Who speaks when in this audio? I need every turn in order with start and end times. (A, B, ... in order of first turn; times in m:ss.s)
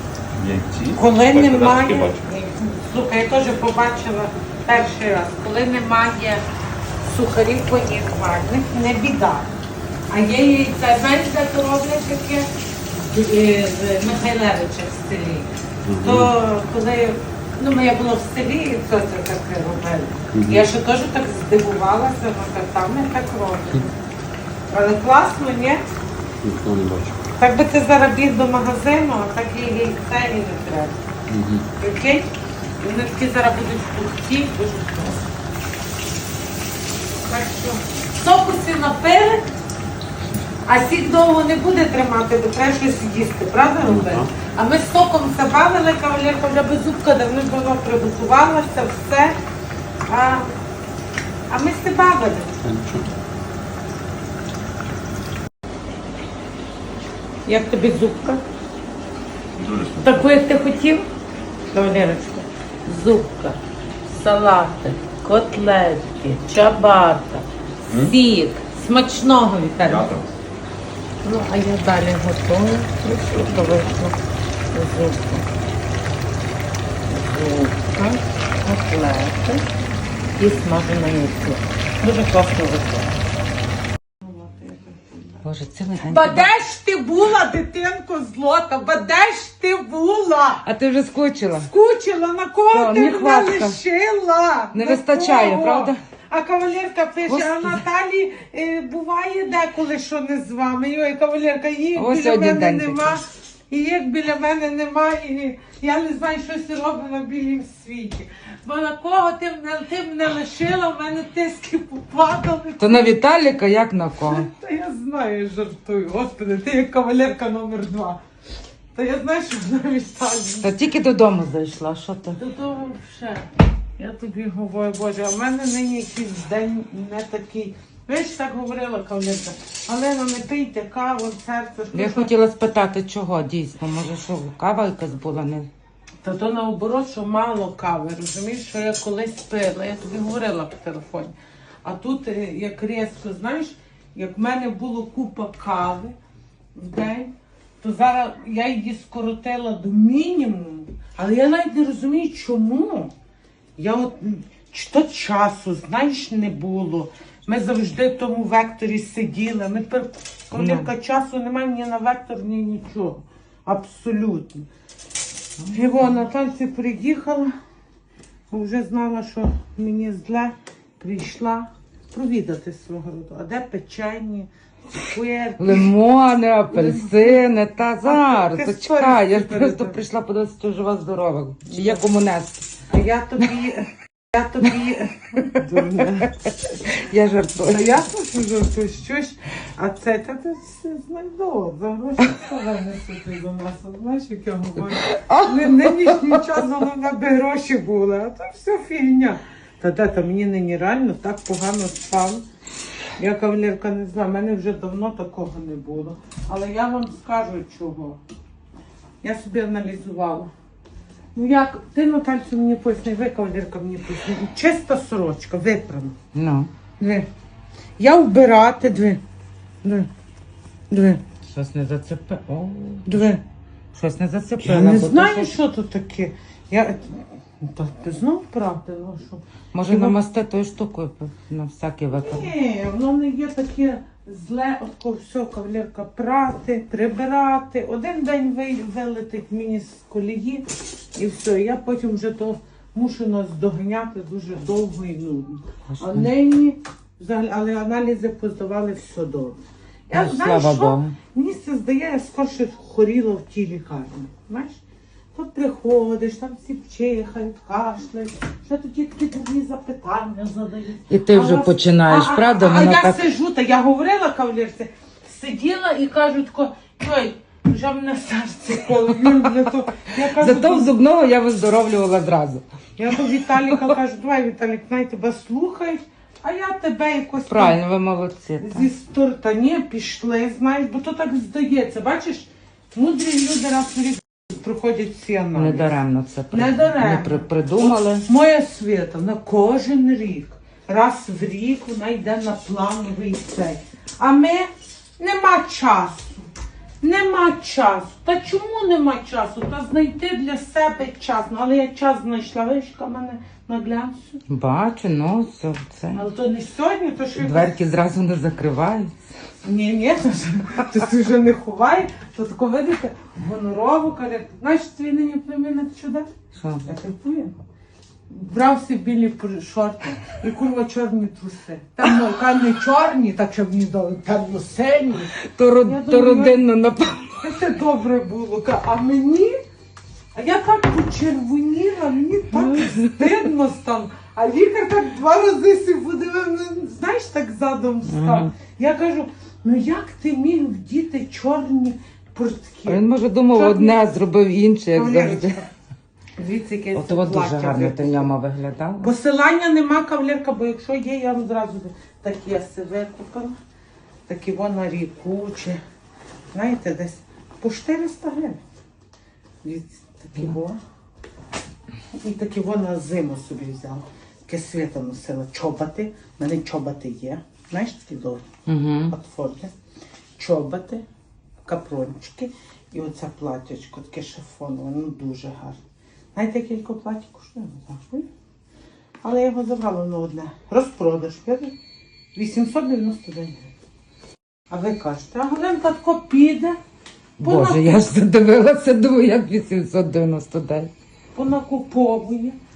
0:00.3-0:02.2 A
0:00.9-0:06.4 B
0:07.0-0:09.5 B
0:10.1-0:12.5 B
0:13.1-0:23.9 B
0:15.8-0:16.3 A
0:20.3-0:20.7 A
0:24.7-0:25.8 B
0:26.4-0:27.2 A
0:27.4-0:31.0 B
0:31.3-0:31.6 A
0:31.8-0:32.3 B
0:32.8-0:35.3 B
0:37.3-0:39.5 B
0:40.6-0:49.4 B
0:43.8-0:44.3 A
0:50.1-0:50.5 B
0:51.5-0:52.5 B
0:52.6-0:53.1 A
0:57.4-0:58.4 B
0:59.6-1:00.2 A
1:00.0-1:01.0 B
1:01.7-1:10.1 B
1:09.8-1:10.3 A
1:11.2-1:14.2 B
1:14.7-1:15.4 B
1:17.1-1:19.7 B
1:20.4-1:23.2 B
1:24.2-1:30.7 B
1:25.4-1:26.5 C
1:30.6-1:31.7 C
1:31.6-1:53.1 B
1:32.7-1:33.8 C
1:34.7-1:36.0 C
1:37.2-1:37.8 C
1:42.0-1:43.2 C
1:52.8-1:54.5 C
1:54.2-1:58.2 B
1:58.9-2:00.7 B
2:00.6-2:02.4 C
2:02.4-2:12.3 B
2:11.9-2:15.7 C
2:16.2-2:26.1 B
2:26.7-2:33.1 B
2:33.8-2:44.7 B
2:40.5-2:40.9 C
2:45.6-2:46.1 C
2:45.7-2:47.5 B
2:48.5-2:55.9 B
2:55.6-3:02.7 C
2:56.7-2:57.5 B
2:58.0-3:00.0 B
3:01.6-3:02.0 B
3:02.9-3:06.3 B
3:05.6-3:08.0 C
3:07.6-3:22.4 B
3:14.8-3:16.7 C
3:23.2-3:28.2 B
3:29.2-3:30.5 B
3:31.3-3:36.2 B
3:36.3-3:36.7 C
3:37.0-3:37.3 B
3:38.0-3:39.2 B
3:40.9-3:41.2 B
3:41.5-3:43.3 C
3:43.0-3:43.4 B
3:43.9-3:45.5 C
3:44.6-3:50.2 B
3:49.7-3:52.5 C
3:52.2-4:14.8 B
4:05.9-4:06.3 C
4:10.1-4:11.2 C
4:15.3-4:30.9 B
4:21.1-4:23.3 C
4:29.1-4:29.7 C
4:30.2-4:32.6 C
4:33.0-4:37.8 B
4:33.5-4:33.9 C
4:37.4-4:38.9 C
4:38.6-4:46.0 B
4:45.5-4:48.2 C
4:46.5-4:56.4 B
4:57.0-5:04.4 B
5:04.5-5:06.2 C
5:06.1-5:07.7 B
5:07.4-5:09.1 C
5:09.6-5:16.3 B
5:16.6-5:16.8 C
5:16.8-5:17.5 B
5:18.3-5:25.3 B
5:25.3-5:27.4 C
5:25.8-5:26.6 B
5:27.4-5:29.6 B
5:30.3-5:44.0 B
5:32.5-5:33.4 C
5:38.0-5:38.5 C
5:42.8-5:45.6 C
5:44.9-5:45.7 B
5:46.4-5:48.3 B
5:46.9-5:49.1 C
5:49.0-5:53.6 B
5:54.3-5:55.8 B
5:56.5-5:58.6 B
5:59.6-6:00.8 B
6:02.2-6:08.4 B
6:08.6-6:09.1 C
6:09.1-6:09.7 B
6:10.4-6:11.0 B
6:11.6-6:15.8 B
6:16.3-6:18.3 B
6:19.2-6:21.7 B
6:22.3-6:23.7 B
6:24.7-6:26.8 B
6:27.4-6:30.9 C
6:27.4-6:28.0 B
6:31.3-6:32.6 B